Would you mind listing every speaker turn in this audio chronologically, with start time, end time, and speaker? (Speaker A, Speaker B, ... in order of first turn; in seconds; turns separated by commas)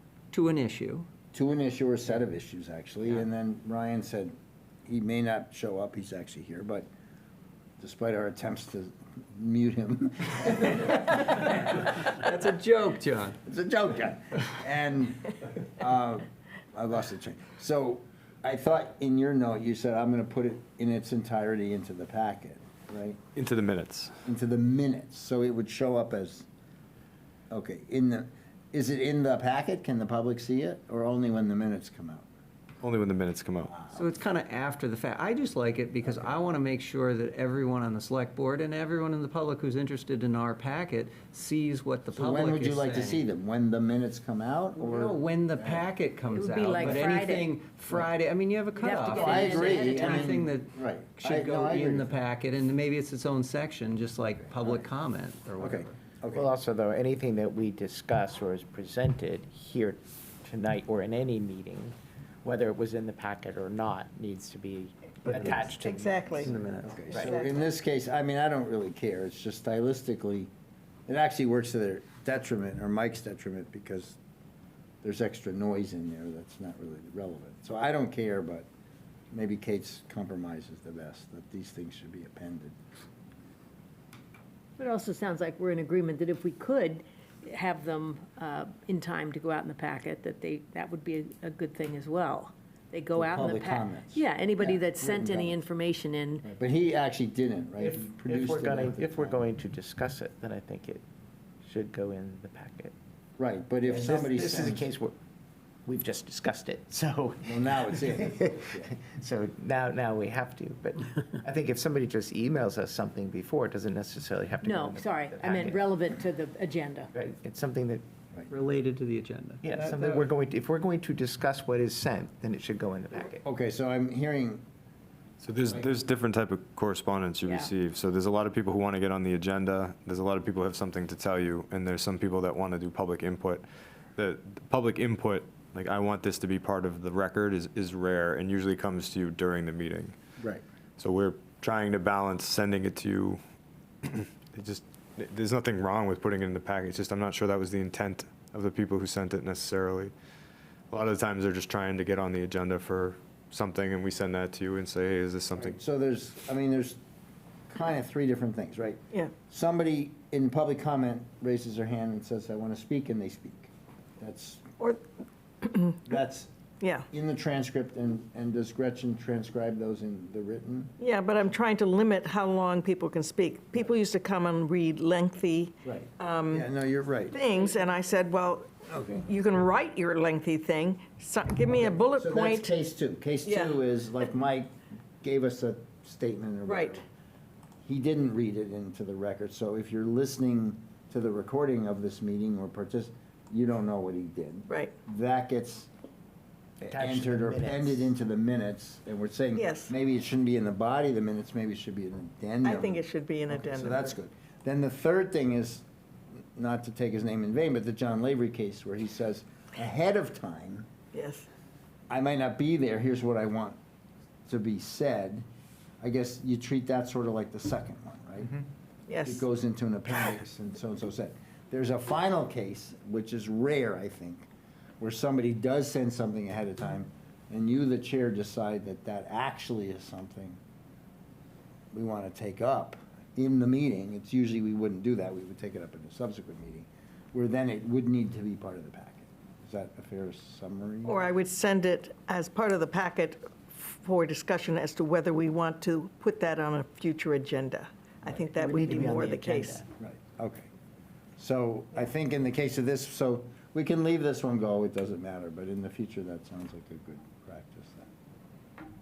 Speaker A: 0.3-1.1, Speaker B: 1.3-6.9, Speaker B: 7.8-11.3, Speaker A: 10.8-11.1, Speaker A: 11.7-13.4, Speaker B: 13.4-23.2, Speaker C: 23.3-24.1, Speaker B: 24.2-26.4, Speaker B: 27.5-32.2, Speaker C: 32.8-33.7, Speaker B: 33.7-34.0, Speaker A: 33.9-43.2, Speaker B: 42.1-45.8, Speaker A: 44.8-56.0, Speaker D: 46.3-47.5, Speaker D: 48.7-50.4, Speaker B: 49.1-52.1, Speaker B: 55.6-56.5, Speaker E: 56.3-66.5, Speaker A: 65.3-65.6, Speaker F: 65.8-66.5, Speaker A: 66.3-67.3, Speaker B: 66.8-70.5, Speaker F: 67.1-67.6, Speaker B: 71.1-74.2, Speaker B: 75.0-78.7, Speaker B: 79.3-82.8, Speaker D: 84.8-96.5, Speaker B: 93.1-95.6, Speaker B: 96.4-99.4, Speaker E: 97.8-101.0, Speaker E: 101.6-102.9, Speaker B: 103.4-104.8, Speaker E: 103.8-105.1, Speaker E: 105.8-116.0, Speaker B: 107.4-108.9, Speaker D: 114.6-117.1, Speaker E: 117.1-118.0, Speaker A: 118.5-119.6, Speaker E: 119.6-123.4, Speaker B: 119.7-120.3, Speaker B: 123.4-124.6, Speaker C: 125.4-133.6, Speaker D: 127.4-127.7, Speaker C: 134.2-140.1, Speaker C: 141.0-143.4, Speaker C: 144.0-150.1, Speaker C: 150.9-155.8, Speaker B: 155.6-157.0, Speaker B: 157.7-164.7, Speaker F: 165.6-166.0, Speaker B: 166.0-166.5, Speaker F: 166.8-167.1, Speaker B: 167.1-170.9, Speaker F: 171.0-176.7, Speaker B: 175.8-177.4, Speaker F: 177.3-182.7, Speaker B: 178.9-179.2, Speaker B: 181.7-187.0, Speaker F: 183.4-183.8, Speaker F: 186.6-187.0, Speaker B: 187.8-195.9, Speaker F: 194.7-194.9, Speaker B: 196.8-205.8, Speaker E: 196.8-198.1, Speaker F: 199.5-199.9, Speaker F: 202.6-204.1, Speaker B: 206.6-210.9, Speaker F: 211.1-211.5, Speaker B: 212.1-213.8, Speaker B: 214.5-215.4, Speaker B: 216.0-218.6, Speaker F: 219.1-219.4, Speaker B: 219.2-224.4, Speaker B: 225.0-230.6, Speaker B: 231.9-241.3, Speaker F: 241.0-249.8, Speaker E: 248.3-249.8, Speaker B: 250.0-250.7, Speaker B: 251.4-258.1